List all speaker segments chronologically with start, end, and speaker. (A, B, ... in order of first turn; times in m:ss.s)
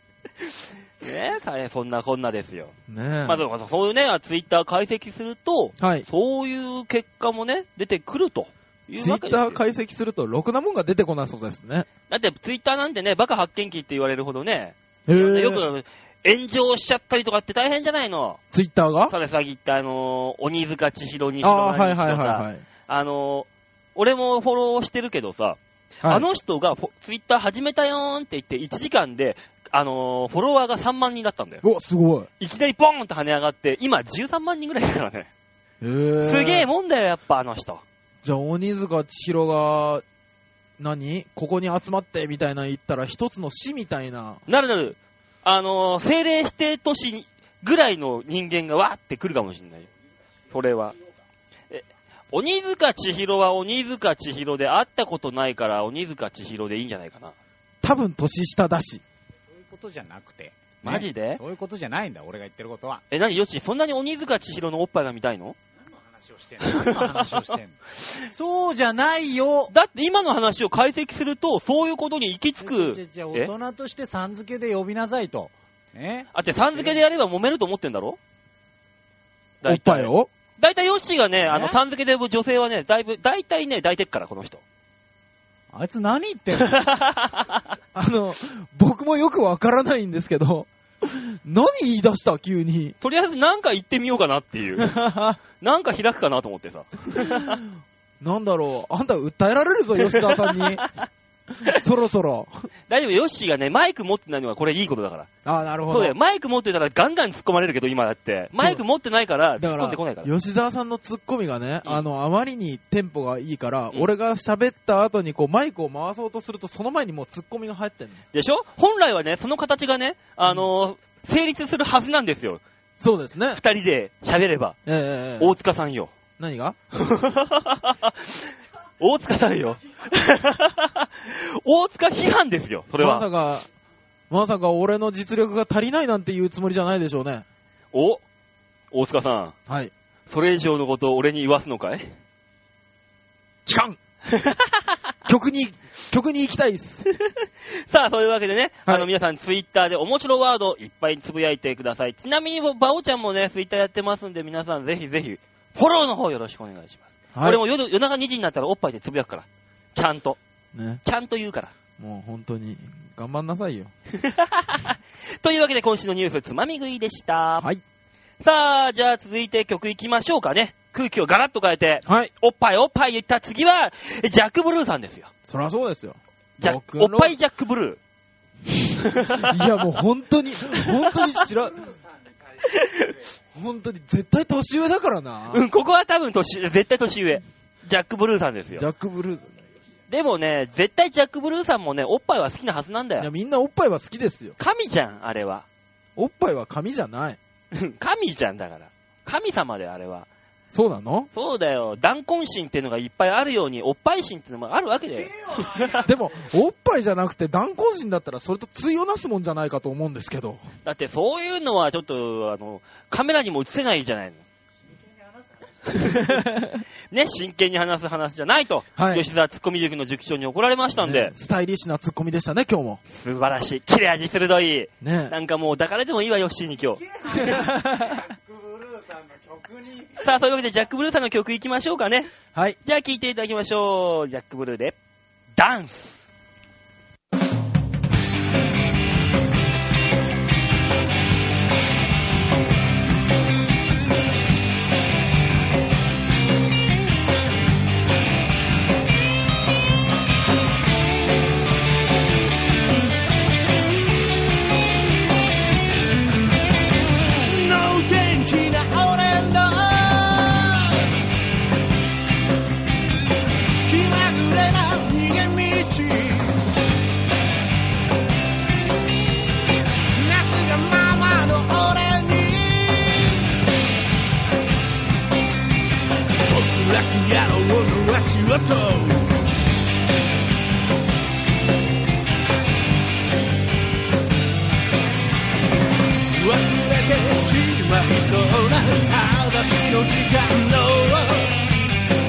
0:01.0-0:02.7 A
0:02.9-0:03.4 B
0:03.2-0:09.6 A
0:05.8-0:06.1 B
0:09.0-0:11.9 B
0:12.1-0:18.4 A
0:15.1-0:15.6 B
0:18.5-0:19.1 B
0:19.1-0:31.6 A
0:21.4-0:22.6 B
0:31.6-0:32.3 B
0:32.4-0:35.3 A
0:35.8-0:36.7 B
0:36.2-0:37.8 A
0:38.2-0:40.0 B
0:40.8-0:44.4 B
0:44.5-0:49.9 A
0:50.5-0:51.0 A
0:51.7-0:57.4 A
0:57.8-0:59.0 B
0:59.5-1:03.0 C
1:00.8-1:01.4 A
1:03.1-1:05.6 A
1:05.8-1:09.7 C
1:06.6-1:07.3 A
1:09.7-1:13.5 A
1:12.6-1:17.0 C
1:16.3-1:18.2 A
1:19.6-1:24.6 A
1:19.6-1:20.3 B
1:21.5-1:21.8 C
1:25.7-1:26.8 C
1:26.6-1:27.6 A
1:27.9-1:33.0 B
1:33.0-1:34.9 A
1:34.8-1:35.4 B
1:35.6-1:37.6 A
1:37.2-1:37.7 B
1:38.2-1:40.8 B
1:40.0-1:41.0 A
1:41.6-1:42.7 B
1:42.9-1:45.3 A
1:45.4-1:46.1 B
1:45.9-1:50.3 A
1:48.6-1:48.8 B
1:49.6-1:58.2 B
1:58.3-2:02.6 A
2:03.0-2:03.6 B
2:03.5-2:04.8 A
2:04.8-2:05.5 B
2:05.4-2:06.1 A
2:06.4-2:06.8 B
2:06.9-2:13.2 A
2:13.0-2:13.7 B
2:14.3-2:17.4 B
2:17.9-2:18.2 A
2:18.9-2:19.5 A
2:20.3-2:22.2 A
2:23.6-2:24.0 B
2:24.3-2:24.8 A
2:25.2-2:27.0 B
2:27.1-2:40.4 A
2:37.3-2:37.6 B
2:40.7-2:41.0 B
2:41.0-2:41.7 A
2:42.0-2:43.9 B
2:44.1-2:47.7 A
2:48.4-2:55.3 A
2:52.0-2:52.3 B
2:55.4-2:57.3 B
2:56.6-2:58.0 A
2:58.7-3:01.8 B
2:59.0-2:59.6 A
3:01.5-3:03.3 C
3:02.6-3:03.1 A
3:03.5-3:05.6 B
3:05.5-3:08.8 A
3:08.8-3:09.6 B
3:10.1-3:13.3 A
3:13.2-3:14.6 B
3:14.6-3:15.6 A
3:16.2-3:17.4 B
3:17.7-3:20.3 A
3:20.7-3:21.3 B
3:21.3-3:26.1 A
3:25.1-3:26.5 C
3:26.0-3:30.6 B
3:30.8-3:34.4 A
3:34.9-3:36.0 C
3:36.0-3:36.4 A
3:36.0-3:36.8 B
3:37.1-3:41.3 A
3:39.0-3:39.2 B
3:41.0-3:43.0 B
3:43.1-3:47.7 A
3:45.0-3:45.3 B
3:47.0-3:50.3 C
3:47.5-3:48.2 B
3:50.2-3:52.3 A
3:52.8-3:55.0 A
3:55.6-3:56.2 A
4:17.4-4:21.1 D
4:23.8-4:26.6 D
4:30.1-4:33.4 D
4:36.4-4:39.4 D
4:46.3-4:51.6 D